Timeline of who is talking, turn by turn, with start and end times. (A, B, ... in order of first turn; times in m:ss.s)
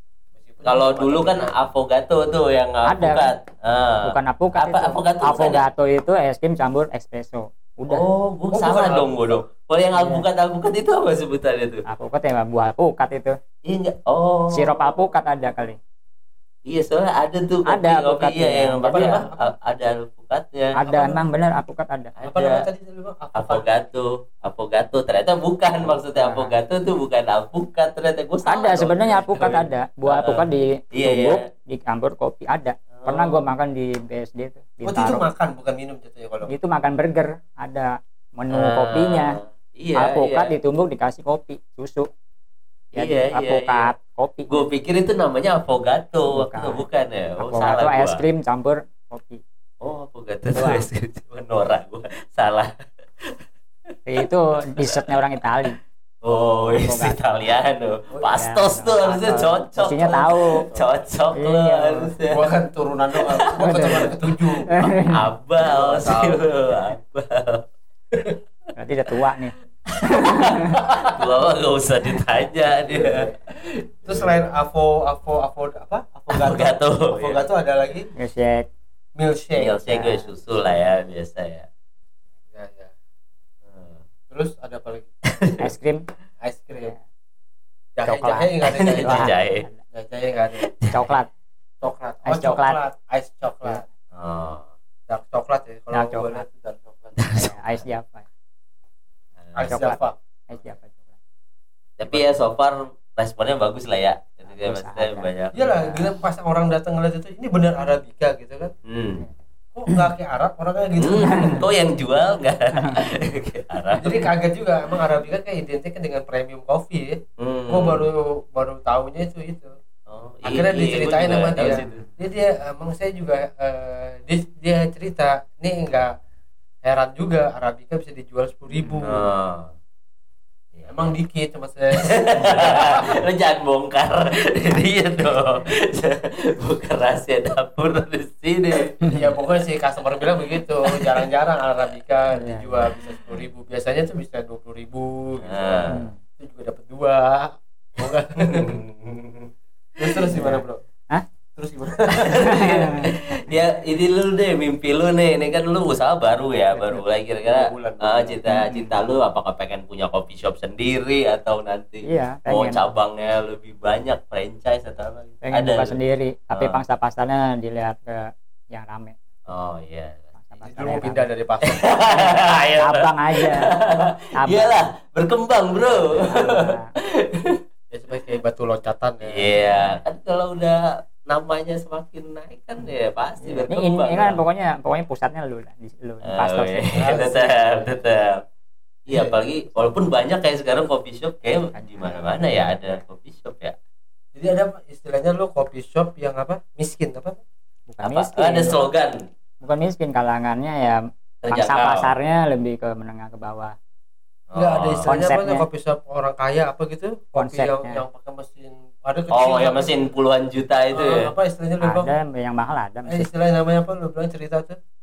0:00.4-0:01.6 A
0:00.6-0:05.6 B
0:02.8-0:03.3 C
0:04.0-0:08.0 C
0:07.9-0:11.8 B
0:08.5-0:09.4 A
0:09.9-0:10.2 C
0:11.9-0:13.4 C
0:13.6-0:15.0 B
0:14.5-0:15.8 C
0:16.6-0:20.8 B
0:17.7-0:19.2 C
0:18.9-0:19.4 A
0:20.8-0:22.1 C
0:20.8-0:21.2 A
0:22.2-0:22.7 B
0:22.2-0:23.7 A
0:23.3-0:31.4 B
0:25.9-0:26.5 C
0:28.4-0:35.2 C
0:33.0-0:33.5 B
0:34.8-0:36.5 A
0:36.5-0:39.4 C
0:38.5-0:40.5 B
0:40.0-0:42.1 C
0:42.9-0:43.9 B
0:42.9-0:44.5 C
0:44.5-0:48.2 B
0:46.3-0:46.8 C
0:47.4-0:49.4 C
0:49.8-0:52.7 B
0:50.5-0:50.8 C
0:54.1-0:55.8 C
0:54.2-0:55.1 B
0:56.2-1:02.5 B
0:56.8-0:57.6 C
0:58.4-1:00.6 C
1:01.3-1:02.1 C
1:02.2-1:04.7 A
1:03.2-1:04.1 B
1:03.6-1:04.1 C
1:04.7-1:05.2 C
1:04.7-1:07.6 B
1:05.6-1:06.4 A
1:08.1-1:08.4 A
1:08.8-1:09.6 C
1:09.9-1:13.5 B
1:10.1-1:10.7 C
1:10.8-1:11.2 A
1:12.7-1:13.3 A
1:14.0-1:18.1 A
1:16.3-1:17.4 B
1:18.2-1:18.7 C
1:19.2-1:20.0 A
1:19.6-1:21.7 B
1:19.9-1:20.3 C
1:22.5-1:22.9 A
1:23.6-1:24.0 B
1:24.3-1:25.1 A
1:25.3-1:25.6 B
1:25.6-1:26.0 C
1:26.4-1:27.0 A
1:28.0-1:29.3 A
1:28.0-1:29.8 C
1:28.6-1:29.6 B
1:29.9-1:31.1 A
1:30.6-1:31.1 B
1:30.9-1:31.3 C
1:31.8-1:33.8 A
1:32.2-1:32.8 C
1:34.1-1:34.7 B
1:35.1-1:37.2 A
1:35.9-1:36.4 C
1:37.2-1:37.7 B
1:37.3-1:38.2 C
1:39.4-1:39.7 B
1:39.6-1:40.6 A
1:39.6-1:41.1 C
1:42.0-1:45.5 B
1:44.5-1:46.1 C
1:45.5-1:48.7 A
1:48.8-1:49.2 B
1:49.7-1:51.6 A
1:51.0-1:54.1 B
1:54.0-1:59.7 A
1:57.4-1:58.0 B
2:00.1-2:02.0 B
2:00.4-2:06.1 A
2:01.6-2:02.0 C
2:06.8-2:09.2 A
2:09.0-2:09.7 B
2:10.9-2:13.1 A
2:12.0-2:19.1 B
2:19.0-2:28.8 A
2:20.9-2:21.3 B
2:22.3-2:22.8 C
2:25.4-2:26.0 B
2:25.9-2:26.2 C
2:28.5-2:29.5 B
2:30.0-2:30.8 A
2:30.3-2:31.2 C
2:31.6-2:33.0 A
2:32.1-2:45.9 B
2:32.4-2:33.1 C
2:36.7-2:37.0 C
2:37.4-2:38.4 A
2:38.5-2:38.9 C
2:42.0-2:42.8 C
2:45.4-2:49.1 C
2:46.5-2:46.8 B
2:49.5-2:50.3 B
2:50.3-2:51.3 C
2:50.6-2:52.0 A
2:51.6-2:57.6 B
2:52.1-2:53.7 C
2:54.4-2:54.8 C
2:55.9-2:56.9 C
2:57.9-2:59.5 A
2:59.2-3:04.4 B
3:03.4-3:07.3 C
3:06.2-3:08.4 B
3:06.9-3:08.0 A
3:09.1-3:13.8 B
3:09.1-3:09.4 A
3:11.6-3:12.9 C
3:14.3-3:17.4 A
3:17.9-3:18.9 C
3:18.0-3:19.2 B
3:19.6-3:23.7 C
3:21.4-3:22.1 B
3:24.5-3:25.1 B
3:24.5-3:30.0 A
3:25.0-3:25.6 C
3:27.4-3:28.0 C
3:29.3-3:31.3 B
3:30.9-3:32.1 A
3:31.8-3:33.3 C
3:33.0-3:34.8 A